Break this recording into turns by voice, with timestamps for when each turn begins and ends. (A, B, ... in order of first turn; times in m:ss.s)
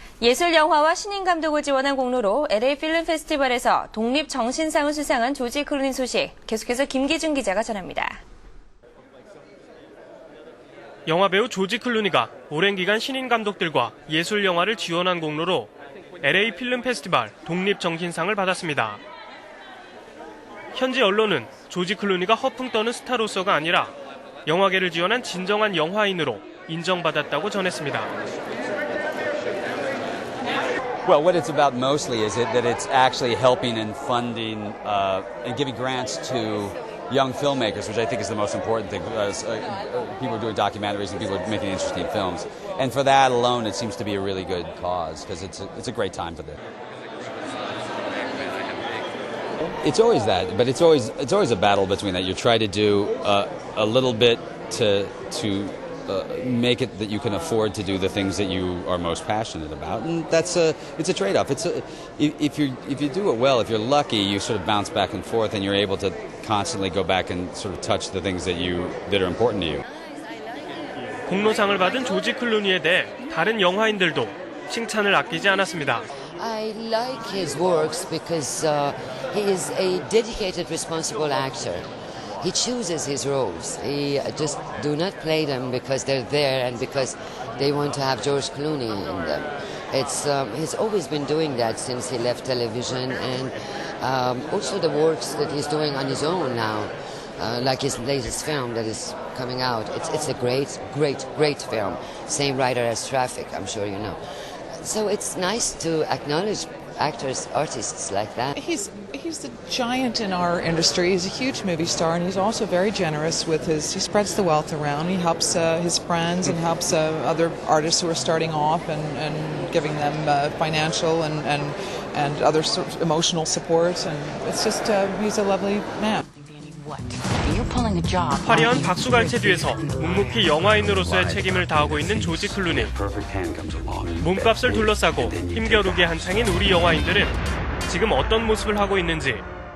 0:00.2-0:08.2 A
0:11.0-0:15.7 B
0:16.2-0:19.0 B
0:20.7-0:23.9 B
0:24.4-0:28.1 B
0:31.0-0:46.6 C
0:49.8-1:09.8 C
1:11.3-1:16.1 B
1:16.4-1:21.8 D
1:22.4-1:44.2 D
1:44.8-1:48.5 D
1:48.5-2:06.2 E
2:06.4-2:10.4 F
2:08.4-2:12.9 B
2:10.9-2:16.8 C
2:14.2-2:17.3 B
2:17.8-2:19.4 B